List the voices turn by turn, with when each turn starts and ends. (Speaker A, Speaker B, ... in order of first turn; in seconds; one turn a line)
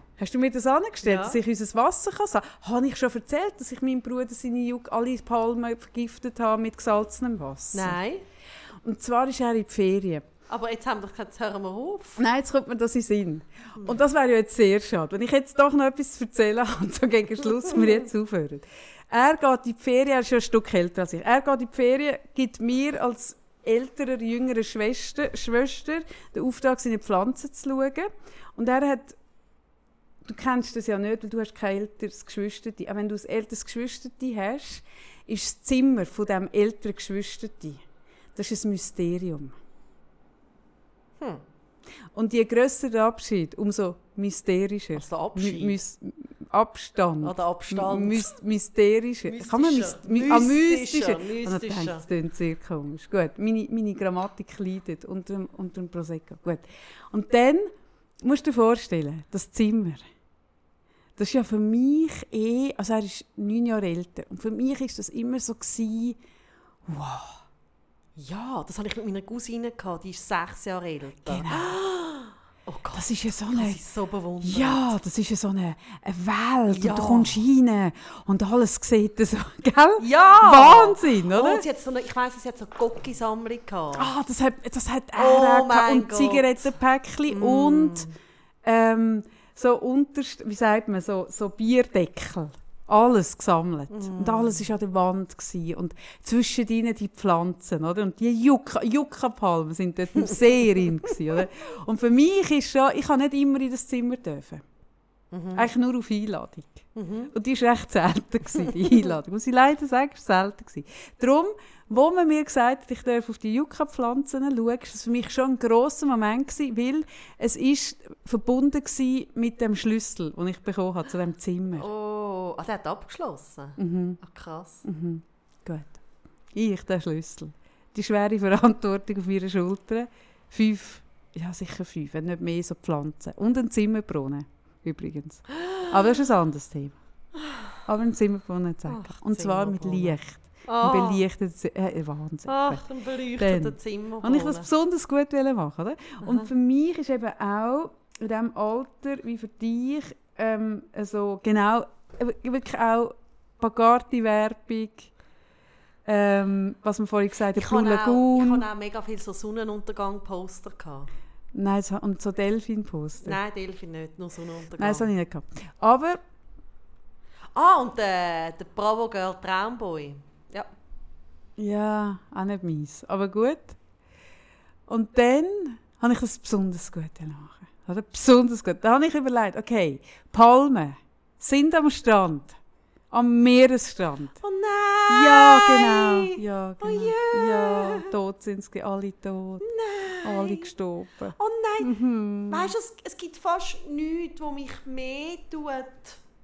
Speaker A: 0.2-8.0
Speaker B: 1.0-1.4
Speaker B: 7.7-8.2
Speaker A: 8.8-10.3
Speaker B: 10.5-12.2
Speaker A: 12.2-29.2
Speaker A: 30.2-37.8
Speaker A: 38.4-39.5
Speaker A: 42.1-57.7
Speaker B: 45.0-45.8
Speaker B: 47.2-48.3
Speaker B: 49.3-52.0
Speaker A: 58.2-60.0
Speaker A: 61.2-66.2
Speaker A: 66.9-67.4
Speaker B: 68.2-75.0
Speaker A: 71.3-71.8
Speaker A: 72.9-73.8
Speaker A: 74.4-81.7
Speaker B: 76.7-77.4
Speaker B: 80.0-84.1
Speaker A: 84.0-88.1
Speaker B: 85.2-86.8
Speaker B: 87.3-88.2
Speaker A: 88.7-104.6
Speaker B: 93.9-94.7
Speaker B: 100.2-101.2
Speaker B: 105.3-105.7
Speaker A: 105.5-121.9
Speaker B: 107.0-107.3
Speaker B: 121.7-124.8
Speaker A: 123.8-124.2
Speaker A: 124.8-126.0
Speaker A: 126.5-137.0
Speaker B: 135.6-136.0
Speaker B: 137.4-137.8
Speaker A: 137.9-142.8
Speaker B: 138.9-141.3
Speaker B: 142.5-144.7
Speaker A: 143.3-155.1
Speaker B: 146.2-146.5
Speaker A: 156.1-158.7
Speaker B: 157.5-161.1
Speaker A: 161.5-163.4
Speaker B: 163.2-165.1
Speaker A: 164.8-166.2
Speaker B: 167.6-170.7
Speaker A: 171.6-173.8
Speaker A: 174.9-182.6
Speaker A: 183.1-184.4
Speaker B: 184.4-188.1
Speaker A: 185.1-189.7
Speaker B: 189.6-190.7
Speaker A: 190.2-192.7
Speaker B: 191.4-192.0
Speaker B: 192.5-196.2